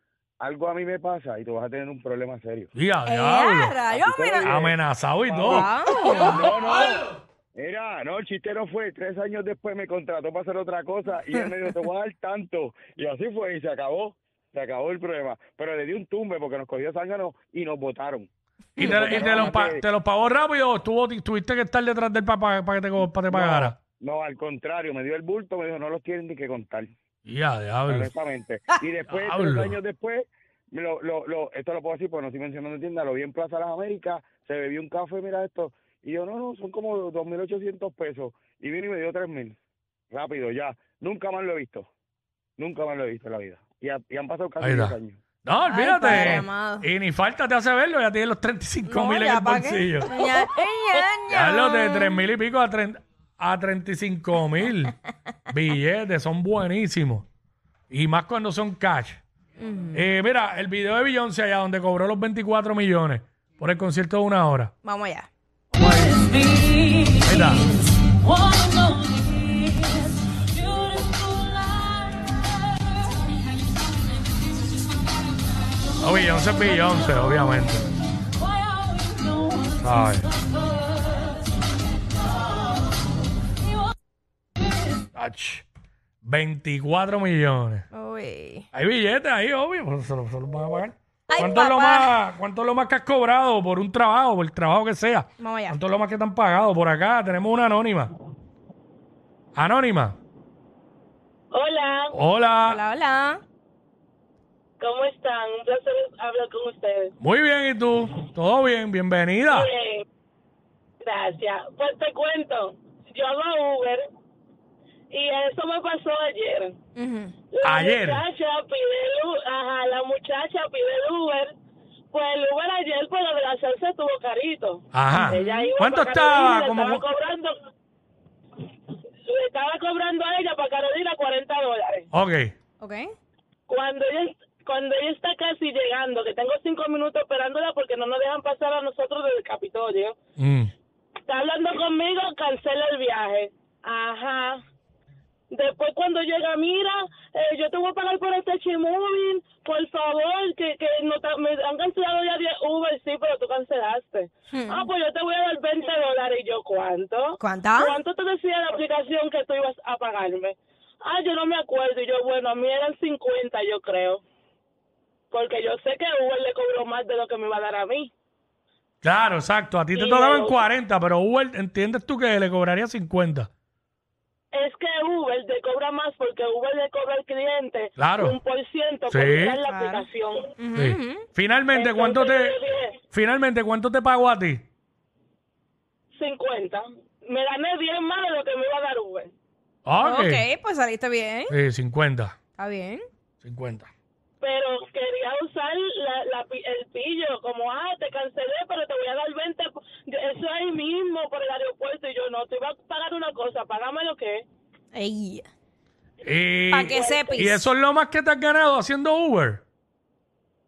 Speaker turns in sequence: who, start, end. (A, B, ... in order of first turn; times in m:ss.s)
0:00.4-0:02.7 A
0:02.8-0:03.8 B
0:03.1-0:04.6 C
0:03.9-0:18.3 A
0:04.4-0:05.7 B
0:05.4-0:06.6 C
0:18.8-0:23.8 B
0:18.8-0:19.8 A
0:19.1-0:19.5 C
0:23.2-0:26.9 A
0:27.3-0:28.1 B
0:27.9-0:39.6 A
0:29.1-0:29.8 B
0:40.1-0:41.9 A
0:42.6-0:45.2 A
0:44.6-0:50.3 B
0:45.6-0:46.9 C
0:48.9-0:52.3 C
0:51.3-0:54.9 B
0:55.5-0:57.3 B
0:57.9-0:59.2 B
0:59.6-1:00.1 C
0:59.9-1:04.7 B
1:04.8-1:05.3 C
1:05.8-1:06.2 B
1:07.2-1:07.7 B
1:08.9-1:09.6 C
1:10.8-1:11.8 C
1:16.0-1:17.9 B
1:19.7-1:20.3 B
1:25.2-1:25.7 B
1:26.2-1:27.9 B
1:27.9-1:28.7 C
1:28.7-1:38.1 B
1:31.3-1:32.1 C
1:35.4-1:35.8 C
1:39.6-1:40.2 B
1:41.5-1:42.1 D
1:42.1-1:42.8 B
1:42.6-1:43.4 C
1:44.8-1:47.1 D
1:47.2-1:49.7 B
1:49.5-1:50.0 D
1:51.0-1:54.0 D
1:55.1-1:56.8 D
1:57.0-1:57.4 C
1:57.5-2:01.5 D
1:57.6-1:58.2 B
2:02.1-2:07.6 D
2:04.9-2:07.0 B
2:05.1-2:05.7 C
2:09.3-2:12.1 D
2:12.1-2:12.6 B
2:12.8-2:13.1 C
2:13.7-2:20.2 D
2:20.4-2:20.7 B
2:21.3-2:24.6 D
2:25.5-2:44.2 D
2:34.5-2:34.9 C
2:37.4-2:38.0 C
2:45.3-2:48.1 D
2:49.0-2:53.5 B
2:50.0-2:50.6 D
2:54.5-3:00.5 D
2:58.0-2:58.4 B
2:59.1-2:59.6 B
2:59.6-3:00.0 C
3:00.6-3:01.3 C
3:00.8-3:02.6 B
3:01.7-3:03.0 D
3:03.1-3:04.7 B
3:06.2-3:09.3 D
3:09.9-3:10.4 B
3:10.0-3:11.6 C
3:11.5-3:12.4 B
3:12.6-3:13.1 C
3:13.4-3:13.9 B
3:14.4-3:24.4 D
3:24.9-3:25.5 C
3:26.2-3:29.6 B
3:26.7-3:27.7 C
3:26.9-3:27.5 D